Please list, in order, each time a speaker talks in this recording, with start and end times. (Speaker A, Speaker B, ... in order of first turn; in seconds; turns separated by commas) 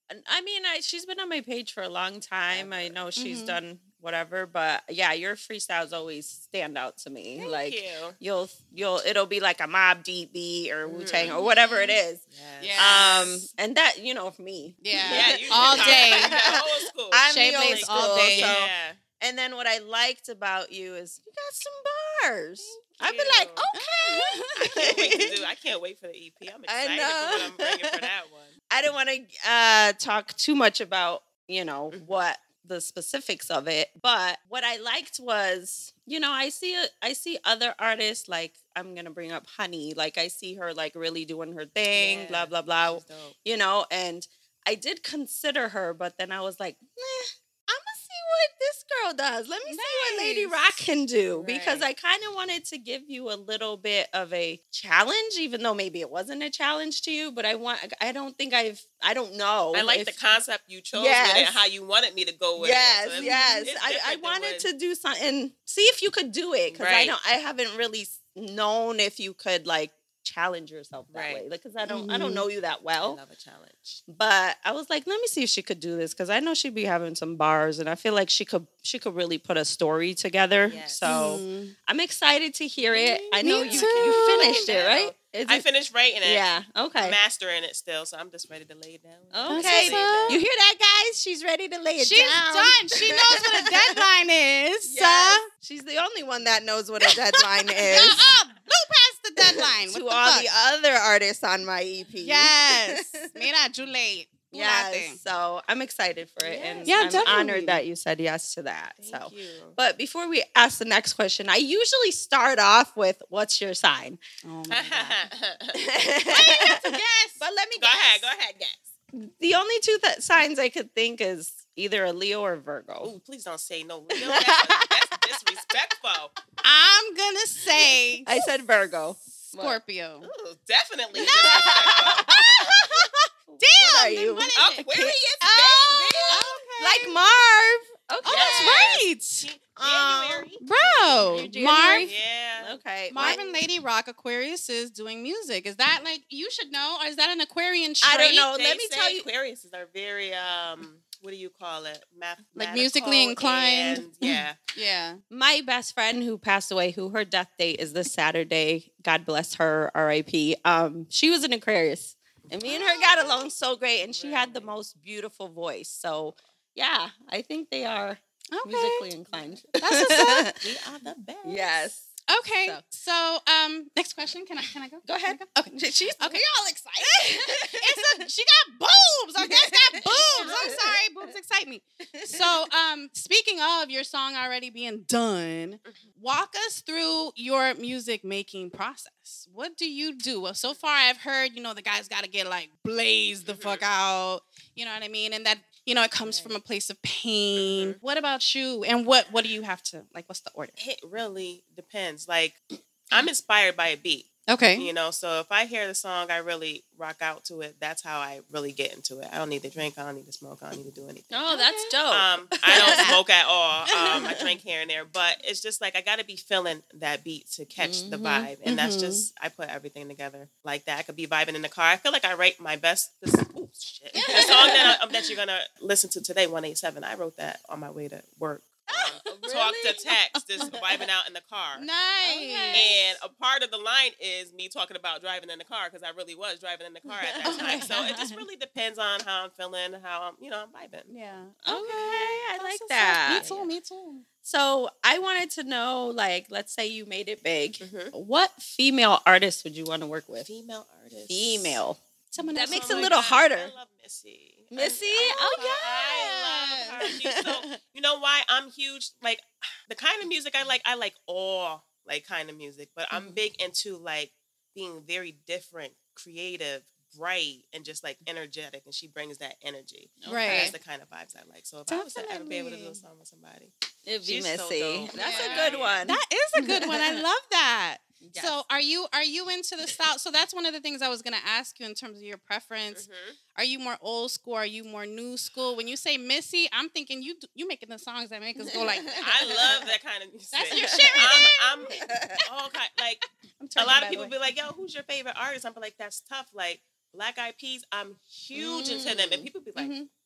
Speaker A: 0.1-12.2, Speaker B: 2.5-3.0, Speaker C: 3.2-3.6, Speaker B: 7.4-8.2, Speaker B: 10.8-11.4, Speaker C: 11.2-12.0, Speaker B: 12.3-13.1, Speaker C: 12.6-13.5, Speaker A: 12.8-25.4, Speaker C: 14.8-16.4, Speaker B: 15.0-19.0, Speaker C: 17.3-18.6, Speaker B: 22.6-23.7, Speaker C: 23.7-25.3, Speaker B: 24.7-28.6, Speaker A: 26.7-28.1, Speaker A: 28.7-60.2, Speaker B: 31.9-32.2, Speaker B: 41.9-43.4, Speaker C: 49.6-50.8, Speaker B: 51.3-51.9, Speaker B: 59.7-64.7, Speaker A: 60.9-61.6, Speaker A: 62.6-73.2, Speaker C: 63.1-63.7, Speaker B: 66.7-67.2, Speaker B: 71.1-71.4, Speaker C: 71.8-72.5, Speaker B: 73.0-74.0, Speaker A: 74.1-85.7, Speaker B: 80.6-81.2, Speaker C: 81.0-81.7, Speaker C: 82.9-84.8, Speaker B: 83.0-86.5, Speaker A: 86.2-87.2, Speaker B: 87.0-90.4, Speaker A: 89.3-94.1, Speaker C: 89.5-90.4, Speaker C: 92.0-95.5, Speaker A: 94.8-98.3, Speaker C: 97.0-100.5, Speaker A: 99.4-103.4, Speaker C: 102.2-105.2, Speaker A: 104.5-114.2, Speaker B: 106.4-107.1, Speaker C: 106.8-107.8, Speaker B: 109.0-109.8, Speaker C: 114.4-115.2, Speaker B: 114.7-115.8, Speaker A: 115.7-118.3, Speaker C: 116.3-117.4, Speaker B: 117.8-118.9, Speaker A: 119.1-123.1, Speaker B: 123.0-126.3, Speaker A: 124.1-125.4, Speaker C: 126.6-128.4, Speaker A: 128.2-129.8, Speaker C: 129.5-130.3, Speaker B: 130.2-132.3, Speaker A: 131.2-132.8, Speaker C: 131.2-134.9, Speaker A: 133.5-139.1, Speaker B: 134.5-136.6, Speaker C: 135.4-137.2, Speaker C: 138.2-139.5, Speaker B: 138.2-143.7, Speaker A: 139.8-143.4, Speaker C: 140.6-142.1, Speaker C: 143.1-148.5, Speaker A: 148.0-149.2, Speaker B: 148.3-154.6, Speaker C: 152.6-155.2, Speaker A: 155.3-170.6, Speaker B: 162.5-163.5, Speaker B: 164.1-164.8, Speaker C: 168.5-169.1, Speaker B: 169.3-169.7, Speaker C: 169.8-170.5, Speaker B: 170.6-171.7, Speaker A: 171.4-172.1, Speaker C: 172.3-176.4, Speaker A: 175.0-178.2, Speaker C: 177.0-200.7, Speaker A: 179.4-181.0, Speaker A: 182.2-182.7, Speaker B: 193.4-193.9, Speaker B: 196.3-196.6, Speaker B: 197.6-198.0, Speaker B: 200.8-202.6, Speaker B: 203.1-211.5, Speaker C: 204.5-204.9, Speaker A: 211.3-213.2, Speaker C: 211.5-211.9, Speaker B: 212.1-231.9, Speaker C: 212.7-213.2, Speaker A: 213.9-214.5, Speaker A: 217.8-218.5, Speaker C: 218.7-219.3, Speaker A: 224.2-225.0, Speaker A: 228.9-230.1, Speaker C: 230.3-230.7, Speaker A: 230.7-230.9, Speaker C: 231.8-232.9, Speaker A: 232.2-233.0, Speaker B: 232.7-241.1, Speaker A: 237.1-238.0, Speaker C: 237.4-238.4, Speaker C: 241.1-244.3, Speaker A: 241.6-243.6, Speaker B: 243.3-243.7, Speaker A: 244.4-250.5, Speaker B: 247.8-248.1, Speaker B: 250.4-251.8, Speaker A: 251.3-252.0, Speaker C: 252.3-253.2, Speaker B: 252.5-276.1, Speaker A: 252.5-253.7, Speaker A: 254.7-256.2, Speaker C: 255.2-257.0, Speaker A: 257.0-257.8, Speaker A: 263.1-263.4, Speaker A: 270.2-270.7, Speaker C: 270.3-270.8, Speaker C: 271.9-273.0, Speaker A: 274.1-277.2, Speaker C: 275.1-289.9, Speaker A: 278.2-278.6, Speaker B: 282.9-283.4, Speaker A: 288.6-289.9, Speaker B: 289.2-293.2, Speaker C: 290.5-292.0, Speaker A: 290.7-292.4, Speaker C: 293.6-294.3, Speaker B: 293.8-299.9, Speaker A: 298.5-299.5, Speaker C: 299.8-300.1